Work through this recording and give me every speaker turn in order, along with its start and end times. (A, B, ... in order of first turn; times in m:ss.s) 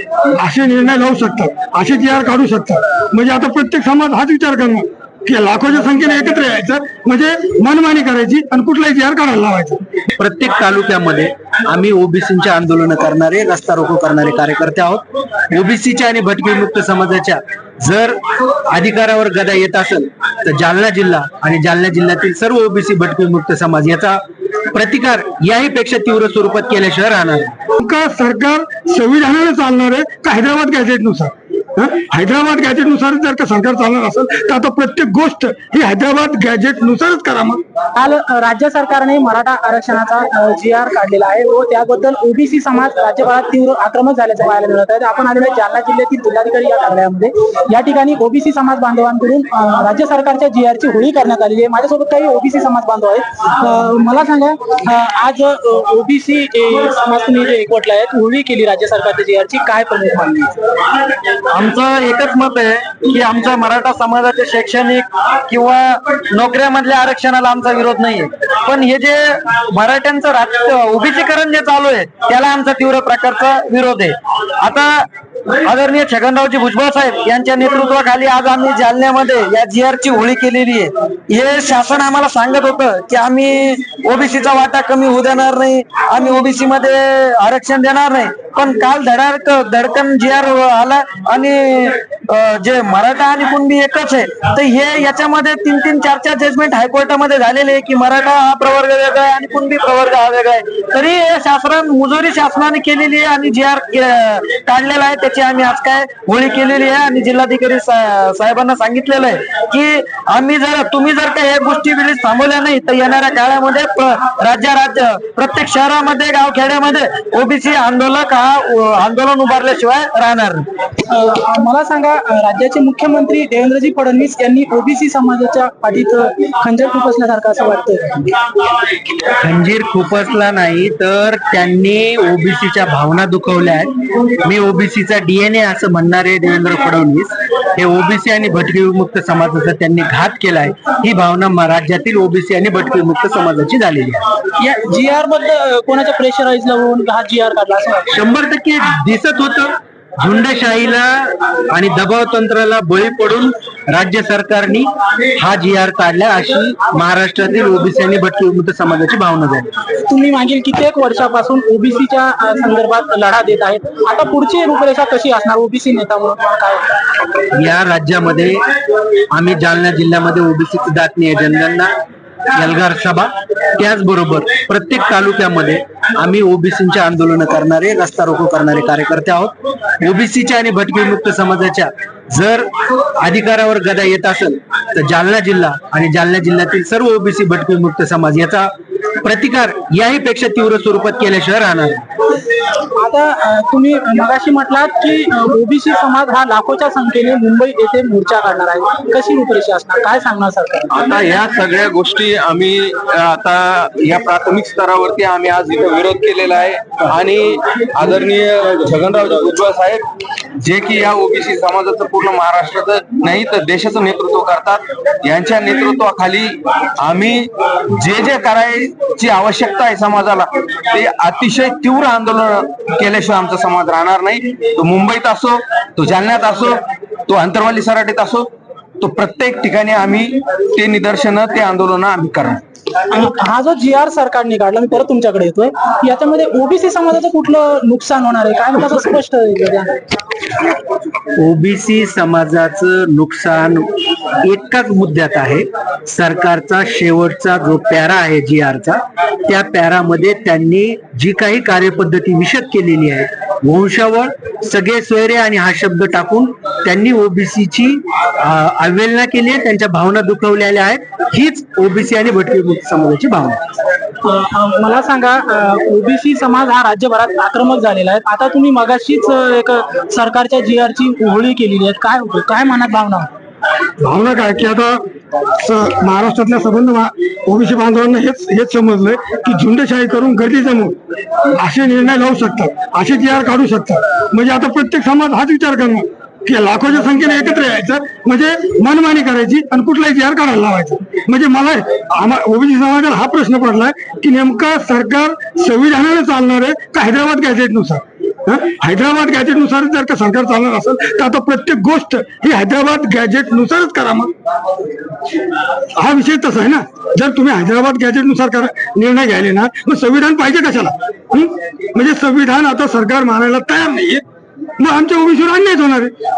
0:00.3-0:09.8 A
0:10.2-0:24.2 B
0:24.7-0:27.5 B
0:27.8-0:37.6 A
0:38.0-1:00.5 C
1:01.4-1:15.1 D
1:15.6-2:00.6 D
2:01.1-2:08.4 C
2:09.3-2:24.2 B
2:24.6-2:28.1 C
2:28.1-2:39.7 B
2:40.1-2:46.9 C
2:47.5-2:48.6 B
2:49.3-2:51.9 B
2:52.5-3:08.7 B
3:09.2-3:12.0 B
3:13.0-3:20.9 C
3:20.9-3:30.0 E
3:30.6-3:48.5 E
3:49.1-3:52.6 E
3:53.1-4:00.0 C
4:01.4-4:23.6 B
4:24.2-4:33.3 C
4:34.0-4:35.0 A
4:35.5-4:41.0 A
4:41.5-5:04.3 A
5:05.9-5:14.2 A
5:14.8-5:16.1 A